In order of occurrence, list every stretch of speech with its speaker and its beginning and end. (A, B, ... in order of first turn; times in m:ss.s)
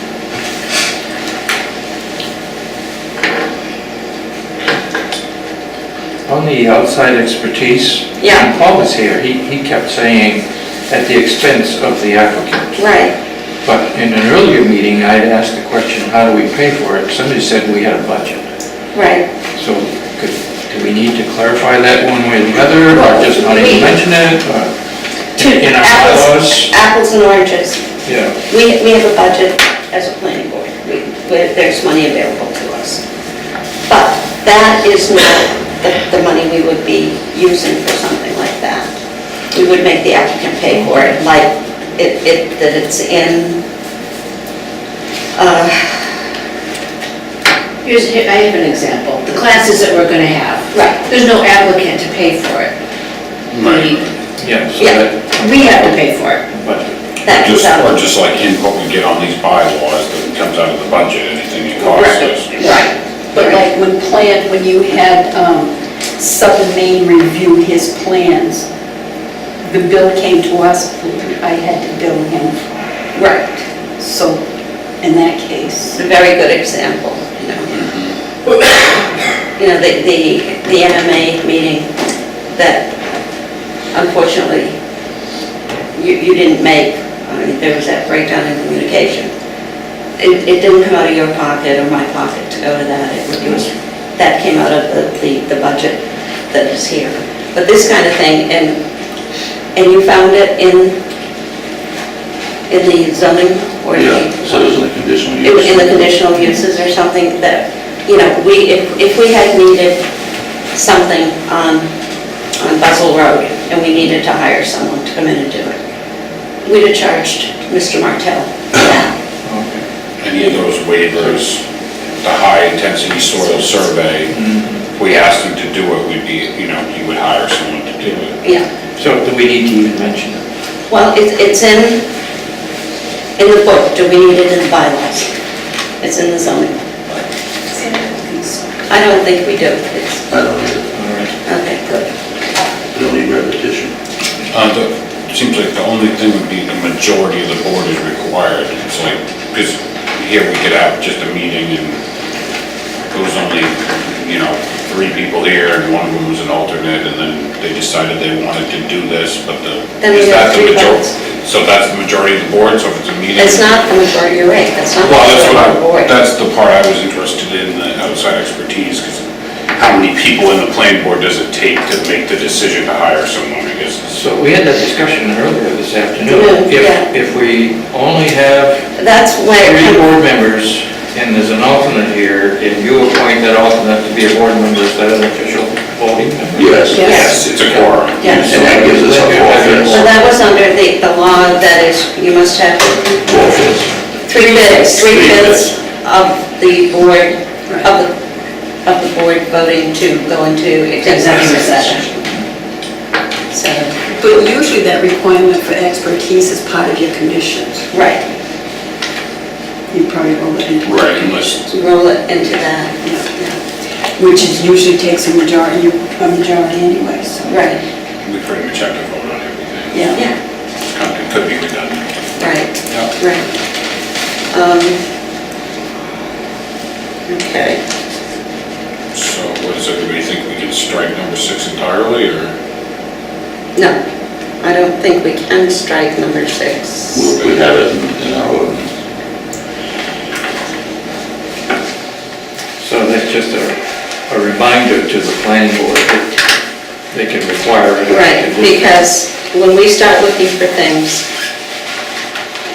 0:06.3-0:12.8 A
0:08.2-0:08.5 B
0:12.8-0:13.1 B
0:13.6-0:18.4 A
0:18.9-0:19.3 B
0:19.6-0:24.7 A
0:22.9-0:24.0 B
0:25.3-0:26.7 A
0:25.4-0:27.8 B
0:28.0-0:28.3 A
0:28.5-0:33.0 B
0:33.9-0:38.9 B
0:39.5-0:43.6 B
0:45.4-0:46.1 B
0:47.8-0:52.7 C
0:50.7-0:51.0 B
0:53.5-0:54.0 D
0:53.6-0:54.0 C
0:54.4-0:55.9 A
0:55.4-0:56.4 C
0:56.5-0:56.9 A
0:57.2-0:57.9 B
0:57.3-1:02.5 D
1:01.8-1:02.8 B
1:02.6-1:03.5 C
1:03.3-1:08.6 E
1:09.6-1:12.6 E
1:13.1-1:13.6 B
1:14.0-1:14.4 E
1:15.0-1:16.0 E
1:15.9-1:17.7 B
1:17.7-1:18.1 D
1:19.6-1:21.9 B
1:22.5-1:22.9 B
1:23.9-1:24.7 B
1:25.9-1:29.3 B
1:30.2-1:36.0 B
1:36.5-1:38.8 B
1:39.8-1:41.0 B
1:42.7-1:44.7 B
1:43.9-1:46.2 F
1:45.4-1:50.0 B
1:50.7-1:51.9 B
1:52.6-1:55.8 B
1:56.6-1:59.1 B
1:59.4-1:59.8 A
2:00.2-2:01.6 D
2:02.2-2:04.3 D
2:04.3-2:04.8 A
2:04.9-2:08.3 D
2:09.0-2:10.4 A
2:10.9-2:12.0 B
2:13.4-2:15.3 B
2:16.0-2:17.3 B
2:17.7-2:18.8 E
2:18.9-2:20.2 B
2:20.3-2:20.9 F
2:20.9-2:21.3 A
2:21.4-2:22.1 B
2:22.9-2:23.9 F
2:24.5-2:32.0 D
2:33.1-2:43.6 D
2:40.0-2:41.1 B
2:43.4-2:46.1 B
2:45.0-2:49.2 D
2:49.8-2:54.0 D
2:54.1-2:58.8 A
2:56.2-2:57.0 B
2:59.0-3:00.2 B
2:59.6-3:10.3 A
3:06.5-3:07.1 F
3:06.9-3:07.3 E
3:07.0-3:07.4 B
3:07.0-3:08.8 D
3:08.2-3:08.6 B
3:08.2-3:10.1 F
3:09.9-3:13.2 B
3:13.2-3:13.9 F
3:14.3-3:18.1 B
3:14.3-3:15.0 E
3:15.0-3:15.7 F
3:18.8-3:22.0 B
3:21.0-3:21.8 E
3:23.5-3:24.0 B
3:24.0-3:27.8 E
3:27.9-3:28.2 B
3:29.9-3:31.7 E
3:30.8-3:31.5 D
3:31.7-3:33.0 B
3:33.0-3:33.5 E
3:34.2-3:37.6 E
3:37.5-3:37.8 B
3:38.2-3:40.1 D
3:39.9-3:40.2 E
3:40.9-3:42.0 D
3:42.4-3:43.5 B
3:42.9-3:43.1 D
3:44.5-3:45.0 B
3:47.3-3:47.8 B
3:49.1-3:52.5 D
3:54.6-3:57.2 B
3:57.1-3:58.9 F
3:57.3-3:57.6 D
4:02.8-4:06.4 A
4:07.1-4:08.9 A
4:08.1-4:11.2 B